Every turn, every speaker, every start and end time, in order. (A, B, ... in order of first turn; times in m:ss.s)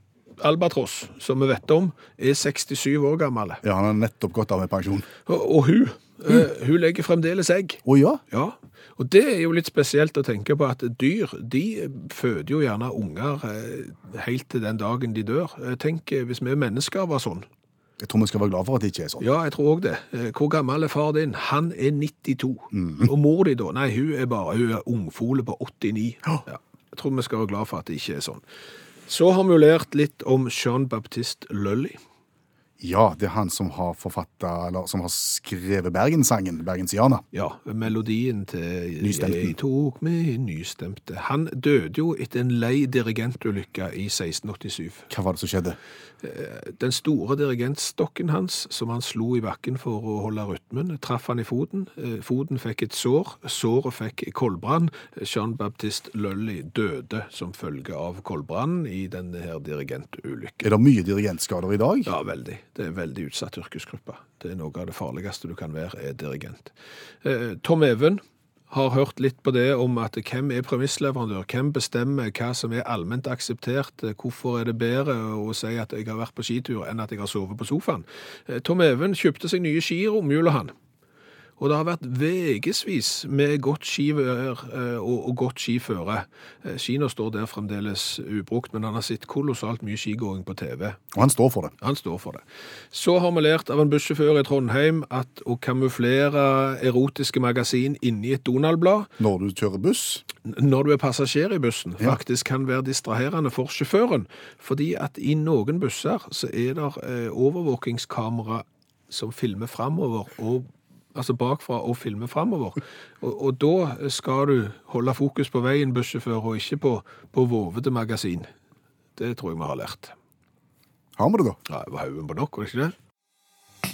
0:00.4-0:03.6 A
0:03.6-0:05.1 B
0:05.3-0:17.4 A
0:07.8-0:08.2 B
0:18.0-0:19.3 B
0:19.2-0:28.4 A
0:22.7-0:23.1 B
0:29.1-0:32.0 A
0:32.8-0:37.2 B
0:37.3-0:45.1 A
0:39.0-0:39.5 B
0:45.1-0:45.8 B
0:46.2-1:00.7 A
1:00.6-1:02.1 B
1:02.0-1:20.7 A
1:21.6-1:31.0 A
1:31.1-1:31.7 B
1:31.8-1:39.1 A
1:39.2-1:40.2 B
1:40.4-1:58.5 A
1:59.2-2:00.1 A
2:01.2-2:01.6 B
2:01.7-2:02.9 A